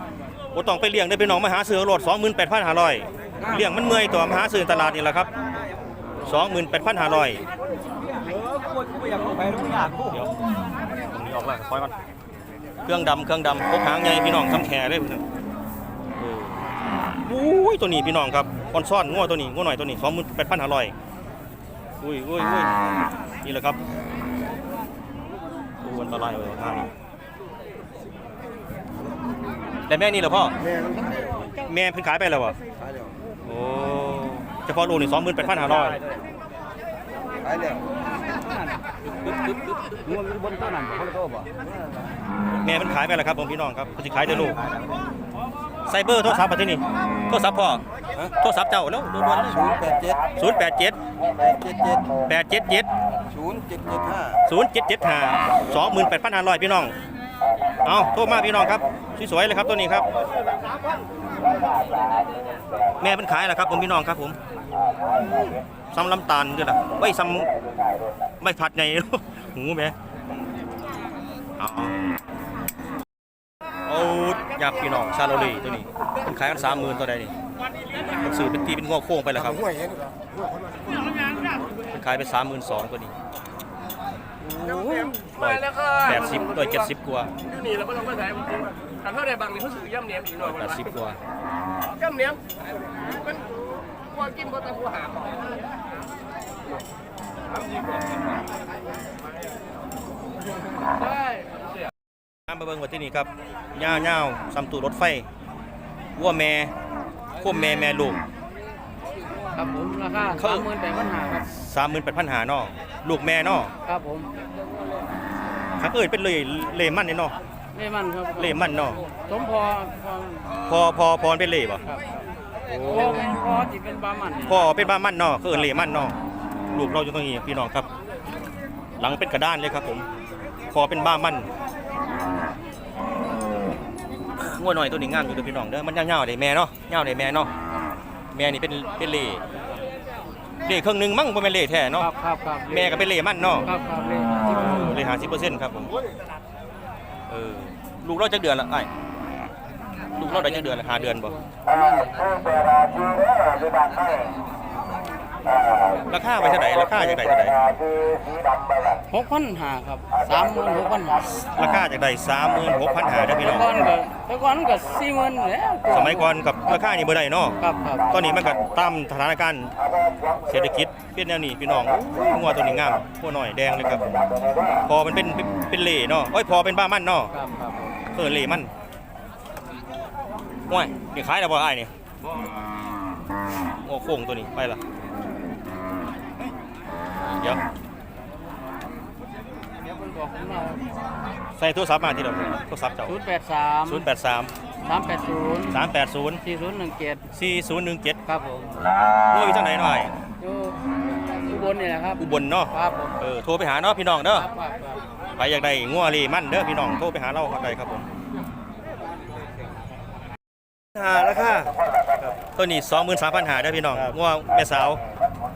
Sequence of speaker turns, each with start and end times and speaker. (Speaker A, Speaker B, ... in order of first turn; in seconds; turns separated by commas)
Speaker A: 0.5-5.3, Speaker A: 6.2-7.4, Speaker B: 8.8-9.9, Speaker A: 10.0-10.3, Speaker A: 11.1-11.9, Speaker A: 12.8-15.2, Speaker A: 16.2-16.6, Speaker A: 17.2-20.9, Speaker A: 22.0-22.7, Speaker A: 23.4-23.8, Speaker A: 25.8-26.9, Speaker A: 29.9-30.6, Speaker C: 30.8-31.5, Speaker A: 31.6-32.6, Speaker A: 33.4-36.0, Speaker C: 37.5-37.8, Speaker D: 38.5-38.8, Speaker D: 40.1-41.5, Speaker B: 40.2-41.4, Speaker A: 42.6-44.6, Speaker A: 45.9-49.6, Speaker C: 49.6-50.2, Speaker A: 50.4-51.0, Speaker C: 51.4-52.1, Speaker A: 52.3-52.9, Speaker C: 53.3-54.4, Speaker A: 54.5-57.0, Speaker A: 57.9-60.1, Speaker A: 63.0-64.4, Speaker A: 65.9-67.5, Speaker A: 68.4-69.9, Speaker A: 71.6-72.0, Speaker A: 73.9-77.3, Speaker A: 78.2-79.7, Speaker A: 81.9-83.1, Speaker D: 84.4-85.2, Speaker A: 85.4-87.3, Speaker B: 89.3-90.2, Speaker A: 90.3-91.2, Speaker A: 102.5-105.3, Speaker A: 106.2-106.7, Speaker A: 107.4-108.2, Speaker D: 109.5-111.5, Speaker A: 110.4-110.7, Speaker A: 111.5-113.7, Speaker D: 113.8-114.3, Speaker A: 115.8-117.4, Speaker D: 117.8-120.5, Speaker A: 118.4-119.0, Speaker A: 120.6-121.8, Speaker D: 122.7-124.9, Speaker A: 122.7-123.1, Speaker A: 124.4-126.2, Speaker A: 126.7-127.9, Speaker A: 129.0-130.1, Speaker A: 130.7-131.5, Speaker A: 134.4-137.5, Speaker A: 138.3-139.4, Speaker A: 140.7-142.1, Speaker D: 142.0-143.1, Speaker A: 142.7-143.7, Speaker D: 143.6-144.9, Speaker A: 144.5-145.9, Speaker A: 147.3-148.9, Speaker A: 150.2-151.3, Speaker D: 150.2-152.6, Speaker A: 156.1-157.6, Speaker D: 159.1-161.4, Speaker A: 161.5-163.7, Speaker D: 163.3-166.3, Speaker A: 165.9-167.6, Speaker D: 167.6-168.2, Speaker A: 168.1-169.7, Speaker A: 170.5-174.2, Speaker A: 174.9-177.3, Speaker D: 177.3-178.0, Speaker A: 178.1-178.7, Speaker A: 180.7-181.9, Speaker A: 183.8-184.8, Speaker A: 187.3-187.6, Speaker D: 189.8-190.8, Speaker A: 191.6-193.2, Speaker D: 193.1-194.1, Speaker A: 193.9-194.5, Speaker D: 194.8-195.9, Speaker A: 195.7-196.4, Speaker D: 196.4-197.2, Speaker A: 197.3-198.2, Speaker D: 198.3-198.8, Speaker A: 199.3-200.1, Speaker D: 200.4-200.8, Speaker D: 201.4-203.2, Speaker A: 202.2-204.5, Speaker D: 204.3-205.0, Speaker A: 205.4-208.1, Speaker A: 211.0-211.7, Speaker A: 212.4-215.0